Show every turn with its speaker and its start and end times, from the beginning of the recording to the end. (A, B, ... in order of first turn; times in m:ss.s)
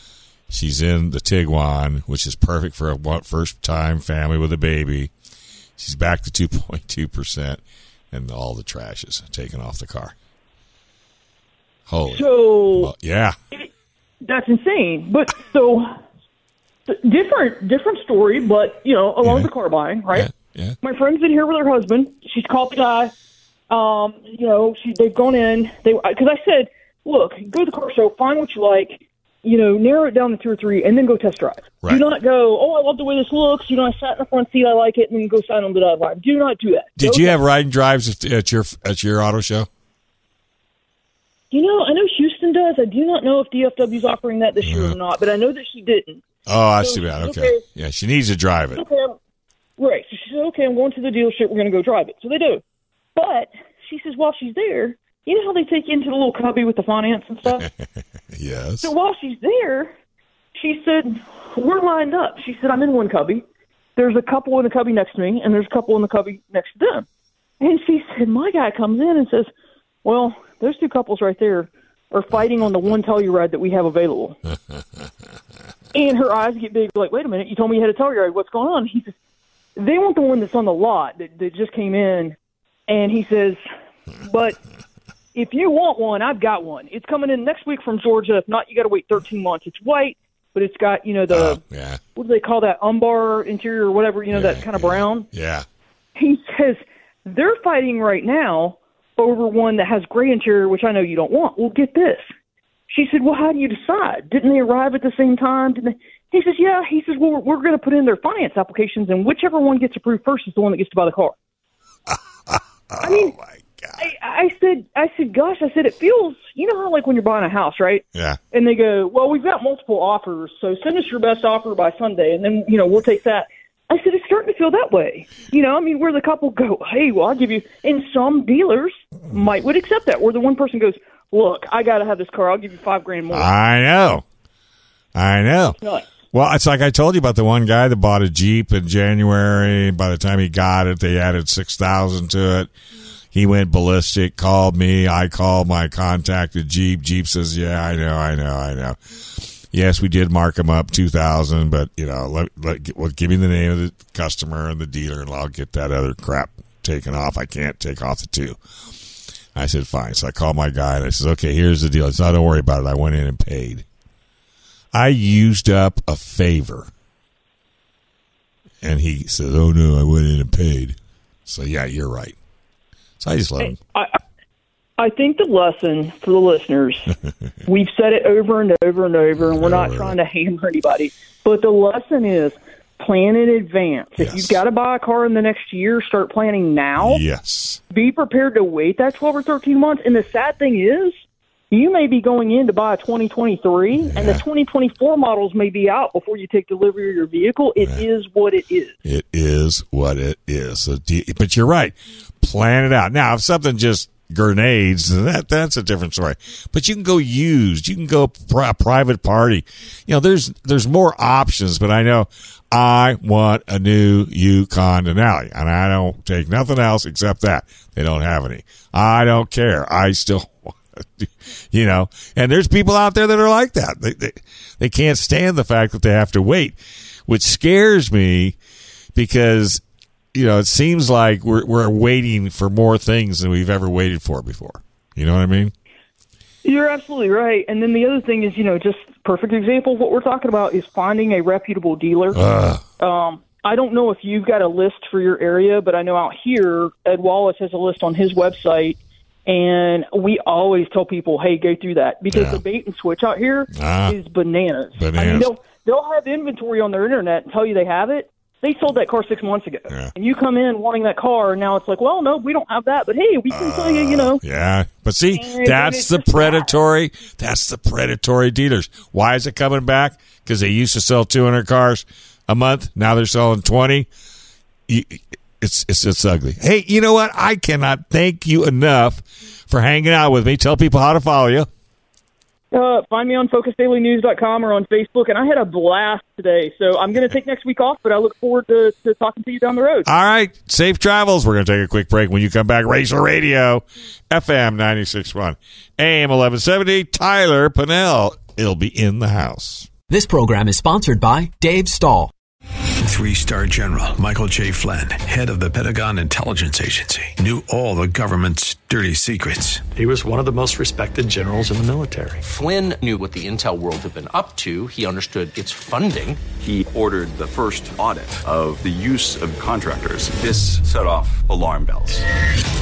0:00.5-0:05.1 A
0:05.8-0:10.1 A
0:11.9-0:13.4 A
0:12.1-0:12.9 B
0:14.2-0:15.9 B
0:16.9-0:20.3 B
0:19.2-0:19.5 A
0:20.1-0:20.8 A
0:20.8-0:23.1 B
0:23.7-0:37.4 B
0:37.0-0:39.7 A
0:41.5-0:46.2 B
0:44.6-0:45.0 A
0:46.4-0:48.8 A
0:46.8-0:47.6 B
0:48.8-0:49.2 B
0:49.8-0:52.6 B
0:53.2-0:57.7 B
0:58.3-0:58.9 A
0:58.8-0:59.9 B
1:00.6-1:03.4 B
1:04.0-1:07.0 B
1:07.6-1:09.5 B
1:10.0-1:14.4 B
1:15.9-1:19.1 B
1:19.8-1:22.4 B
1:22.9-1:23.6 B
1:24.2-1:24.6 B
1:25.3-1:31.6 B
1:31.3-1:32.0 A
1:32.2-1:35.3 B
1:34.3-1:35.6 A
1:36.2-1:42.2 B
1:42.9-1:51.3 B
1:52.1-1:54.0 A
1:53.0-1:53.3 B
1:54.0-2:13.5 B
1:58.1-1:58.4 A
2:13.3-2:14.2 A
2:15.1-2:15.8 A
2:15.8-2:16.1 B
2:16.3-2:22.7 A
2:23.3-2:38.6 A
2:39.5-2:43.8 A
2:44.9-2:46.9 A
2:48.8-2:52.4 A
2:53.2-2:53.8 A
2:53.6-2:54.2 B
2:55.0-2:57.1 B
2:57.6-3:07.2 B
2:59.4-3:00.2 A
3:04.2-3:04.6 A
3:07.0-3:07.8 A
3:07.9-3:11.1 B
3:11.7-3:18.9 B
3:14.0-3:14.4 A
3:19.0-3:48.6 A
3:49.1-3:49.8 A
3:50.3-3:55.7 A
3:56.6-4:02.4 B
4:02.3-4:02.8 A
4:03.0-4:24.4 B
4:12.3-4:12.6 A
4:13.7-4:14.2 A
4:15.0-4:15.5 A
4:23.5-4:34.1 A
4:25.3-4:26.7 B
4:34.9-4:41.7 A
4:42.7-4:50.1 B
4:50.0-4:59.9 A
5:00.1-5:02.3 C
5:03.0-5:09.8 D
5:09.9-5:12.4 E
5:12.4-5:16.5 F
5:16.5-5:22.2 G